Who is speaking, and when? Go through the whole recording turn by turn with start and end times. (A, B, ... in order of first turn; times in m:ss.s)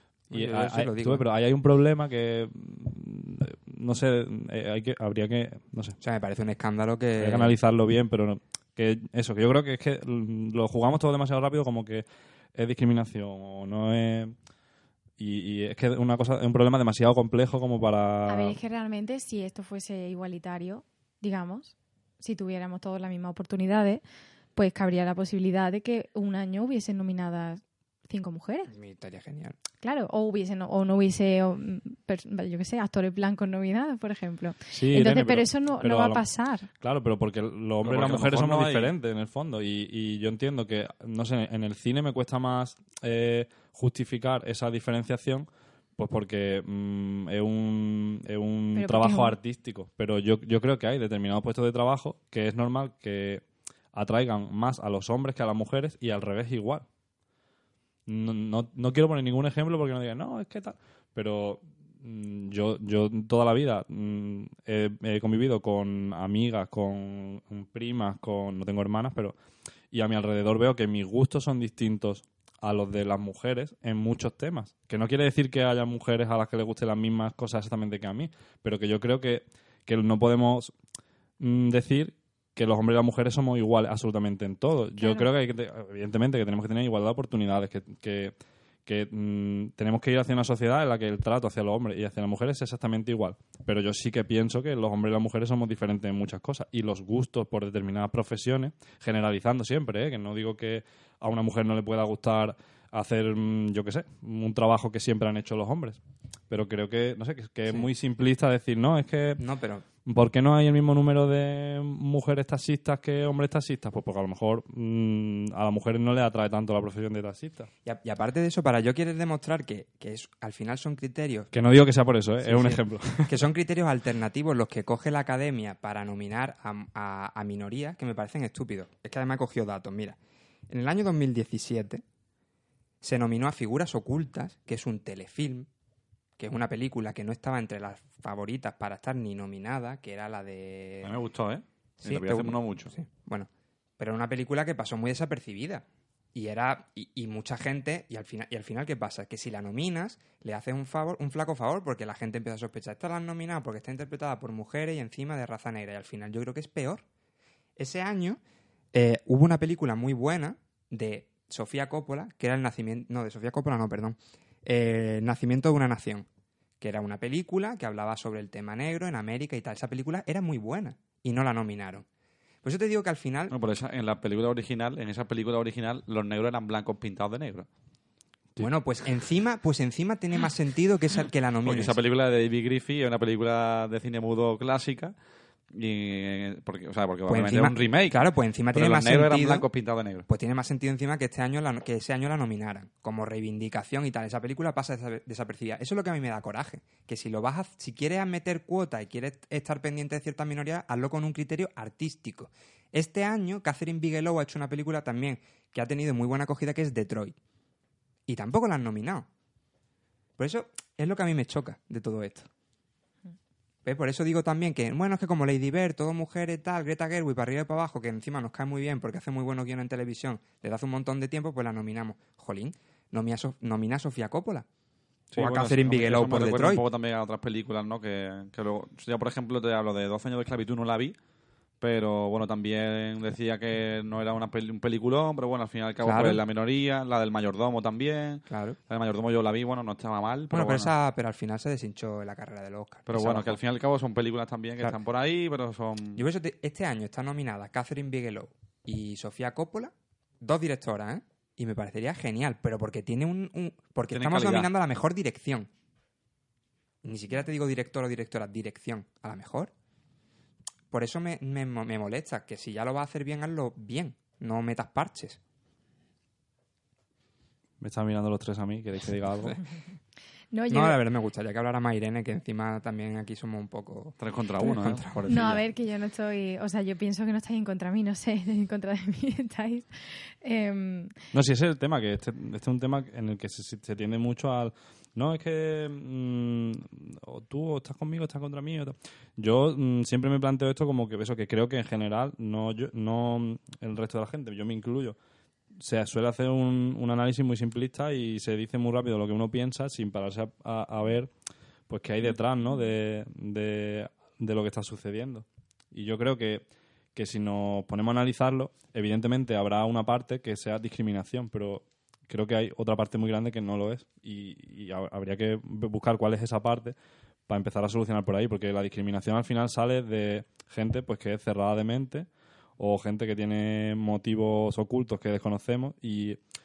0:00.3-0:01.2 A
0:00.3-0:06.0 B
0:06.0-0:07.6 A
0:07.2-0:12.0 B
0:12.5-0:14.3 B
0:15.2-0:18.6 B
0:18.3-0:24.0 C
0:24.6-0:28.7 C
0:28.7-0:29.6 A
0:29.8-0:36.7 C
0:34.7-0:36.2 B
0:36.8-0:56.8 B
0:37.8-0:38.9 D
0:48.8-0:49.4 C
0:58.1-1:09.4 B
1:09.9-1:20.7 B
1:21.4-1:28.3 B
1:25.0-1:25.3 C
1:28.8-1:46.0 B
1:46.5-1:49.4 B
1:49.4-1:49.8 A
1:50.0-1:57.7 B
1:57.8-2:01.5 A
2:01.5-2:03.3 B
2:02.4-2:10.2 A
2:10.7-2:12.0 A
2:13.0-2:15.7 A
2:16.4-2:21.2 A
2:21.0-2:22.9 D
2:22.0-2:37.0 A
2:37.8-2:38.4 A
2:38.9-2:46.3 A
2:46.8-2:52.0 A
2:52.6-2:53.5 A
2:53.5-2:57.7 D
2:58.6-3:02.0 A
3:01.6-3:05.1 D
3:05.7-3:10.2 D
3:07.3-3:09.7 A
3:10.2-3:27.4 A
3:28.3-3:29.3 A
3:30.4-3:32.5 A
3:33.8-3:44.6 A
3:45.3-3:51.2 D
3:45.3-3:46.8 A
3:51.8-4:00.9 D
3:56.0-3:56.4 A
3:58.5-3:58.8 A
4:00.5-4:03.6 A
4:03.1-4:06.2 D
4:06.2-4:15.7 A
4:14.1-4:14.7 D
4:17.0-4:19.7 A
4:20.9-4:25.4 A
4:27.8-4:29.6 B
4:30.5-4:31.0 C
4:30.7-4:35.6 A
4:34.2-4:35.1 D
4:35.3-4:41.1 C
4:41.3-4:55.2 B
4:55.8-5:01.3 B
5:01.9-5:17.0 B
5:02.2-5:02.8 C
5:17.5-5:22.3 B
5:22.8-5:26.4 B